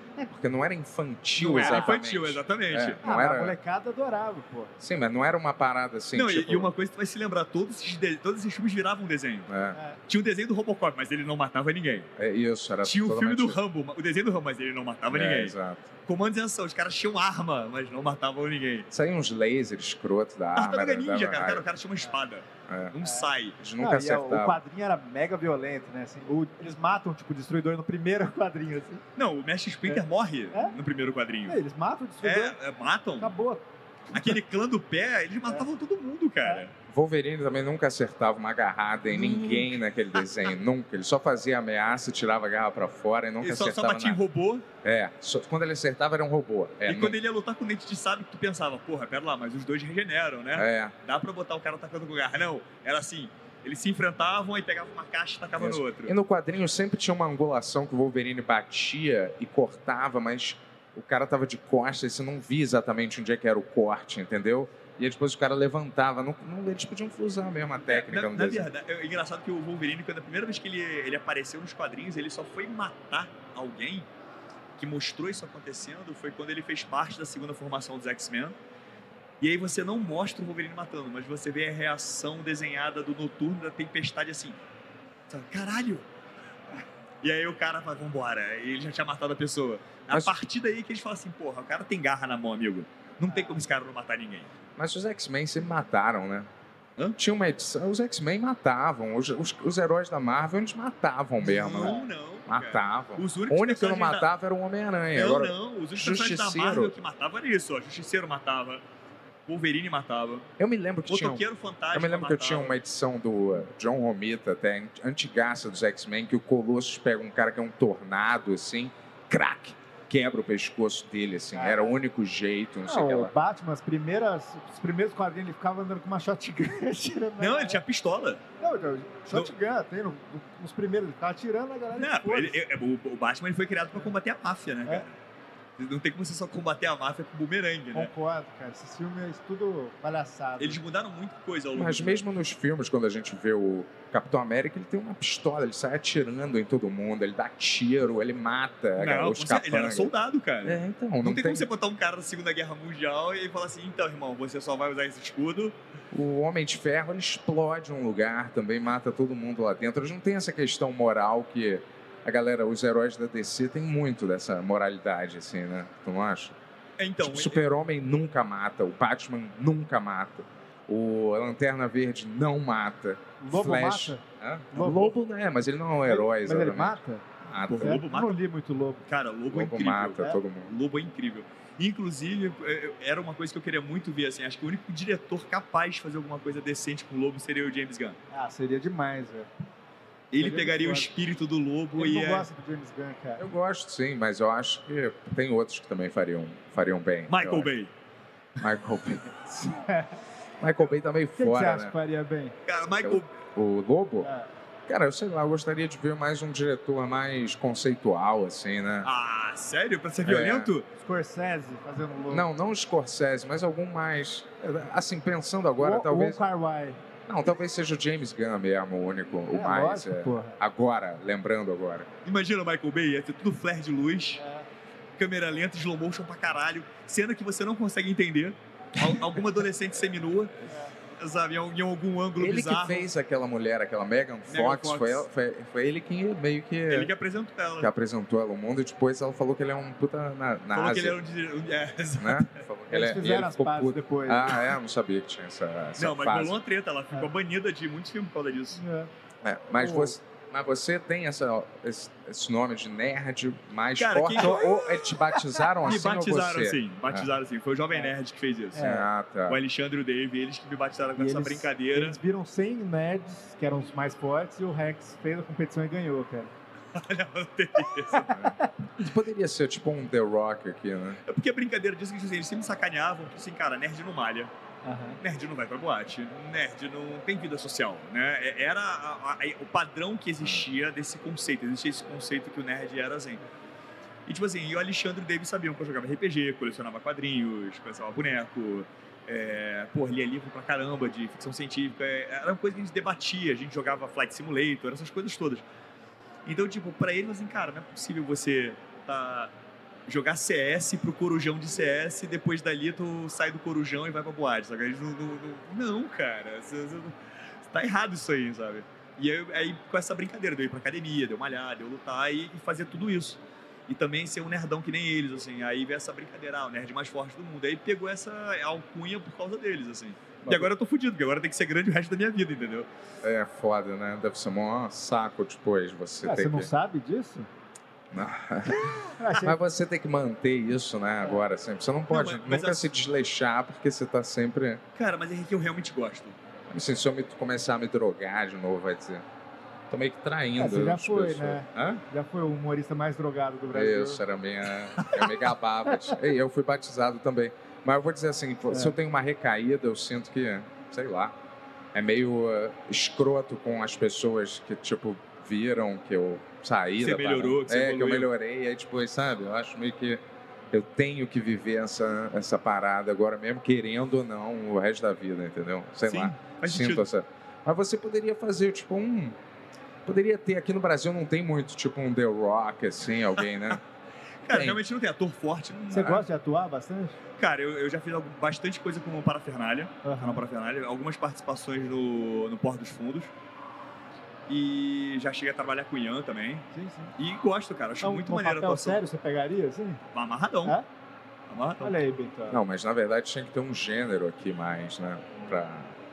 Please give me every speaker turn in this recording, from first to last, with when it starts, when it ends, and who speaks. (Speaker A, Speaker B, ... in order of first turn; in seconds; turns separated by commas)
Speaker A: 0.2-3.6, Speaker B: 1.4-3.0, Speaker C: 1.4-1.9, Speaker C: 3.0-4.7, Speaker A: 4.8-6.7, Speaker B: 6.2-9.5, Speaker A: 9.5-9.8, Speaker B: 10.1-12.1, Speaker A: 12.2-13.6, Speaker B: 12.8-18.9, Speaker A: 15.1-15.9, Speaker A: 18.9-21.7, Speaker B: 20.6-23.6, Speaker A: 22.7-23.0, Speaker C: 23.0-23.3, Speaker A: 23.6-24.6, Speaker C: 23.8-29.0, Speaker B: 29.2-31.6, Speaker C: 29.9-30.8, Speaker C: 31.5-32.6, Speaker B: 32.2-33.3, Speaker C: 33.2-34.3, Speaker B: 34.1-36.7, Speaker A: 36.9-44.2, Speaker B: 39.2-39.7, Speaker B: 43.4-44.7, Speaker A: 44.8-47.2, Speaker B: 46.9-56.1, Speaker A: 50.5-51.0, Speaker A: 55.6-68.7, Speaker B: 67.9-74.1, Speaker B: 74.8-78.5, Speaker B: 79.4-84.6, Speaker B: 85.3-86.1, Speaker B: 87.2-94.5, Speaker C: 93.3-93.6, Speaker A: 94.8-96.5, Speaker A: 97.2-107.0, Speaker B: 101.4-104.3, Speaker C: 101.7-102.1, Speaker B: 105.1-108.8, Speaker B: 109.5-110.5, Speaker A: 110.6-123.3, Speaker B: 111.1-112.8, Speaker C: 121.5-122.0, Speaker C: 122.8-127.8, Speaker B: 127.4-128.4, Speaker C: 128.6-132.6, Speaker B: 131.9-135.2, Speaker B: 135.8-138.1, Speaker C: 137.9-140.8, Speaker B: 140.6-142.2, Speaker A: 141.7-150.1, Speaker B: 149.0-155.8, Speaker A: 150.6-151.7, Speaker A: 156.1-166.6, Speaker B: 167.0-167.6, Speaker A: 167.2-178.0, Speaker C: 173.4-175.2, Speaker C: 176.1-177.2, Speaker B: 177.7-178.4, Speaker C: 177.8-179.0, Speaker B: 179.1-188.2, Speaker A: 179.5-180.7, Speaker C: 188.3-189.5, Speaker B: 190.3-192.5, Speaker C: 190.4-191.1, Speaker C: 192.0-193.5, Speaker A: 193.4-197.7, Speaker B: 197.3-197.9, Speaker A: 198.6-199.8, Speaker C: 199.9-200.2, Speaker A: 200.6-201.9, Speaker C: 201.4-202.6, Speaker B: 202.7-203.3, Speaker A: 203.0-204.3, Speaker C: 204.2-204.5, Speaker A: 204.9-209.1, Speaker B: 209.0-210.9, Speaker A: 210.2-210.7, Speaker C: 211.0-212.5, Speaker A: 212.3-216.4, Speaker C: 215.8-217.0, Speaker A: 217.3-222.1, Speaker C: 219.5-220.6, Speaker B: 222.2-224.4, Speaker C: 224.4-224.7, Speaker B: 225.2-230.6, Speaker C: 230.7-230.9, Speaker B: 231.2-233.1, Speaker A: 232.4-237.1, Speaker B: 234.5-235.3, Speaker B: 236.9-237.9, Speaker A: 237.8-241.2, Speaker B: 240.7-242.6, Speaker A: 242.2-246.6, Speaker C: 242.9-244.6, Speaker B: 246.0-248.8, Speaker C: 248.8-249.1, Speaker A: 249.4-257.3, Speaker C: 249.8-250.2, Speaker B: 254.0-254.9, Speaker B: 255.8-258.9, Speaker C: 258.8-259.1, Speaker A: 258.8-259.6, Speaker B: 259.5-262.2, Speaker C: 261.2-266.5, Speaker B: 266.9-268.5, Speaker C: 268.1-268.7, Speaker A: 268.4-271.2, Speaker B: 271.3-274.5, Speaker C: 274.8-275.2, Speaker B: 275.2-283.4, Speaker B: 284.3-295.6, Speaker B: 296.5-299.5, Speaker B: 300.1-307.1, Speaker B: 307.7-322.9, Speaker A: 323.2-326.7, Speaker C: 326.2-327.5, Speaker A: 328.1-334.8, Speaker C: 329.1-329.6, Speaker B: 332.1-333.0, Speaker B: 335.0-336.4, Speaker A: 336.7-339.2, Speaker A: 339.9-342.0, Speaker C: 340.6-344.2, Speaker A: 343.7-351.4, Speaker C: 348.7-349.0, Speaker A: 351.9-369.4, Speaker B: 357.0-358.3, Speaker B: 366.1-367.1, Speaker A: 370.1-373.8, Speaker B: 374.4-376.2, Speaker A: 374.5-374.8, Speaker C: 375.9-377.2, Speaker B: 377.4-383.3, Speaker C: 380.0-380.4, Speaker B: 384.5-386.7, Speaker C: 386.7-387.1, Speaker B: 387.2-389.0, Speaker C: 388.0-390.0, Speaker B: 390.1-390.8, Speaker B: 391.5-392.0, Speaker C: 391.8-392.6, Speaker A: 392.5-396.0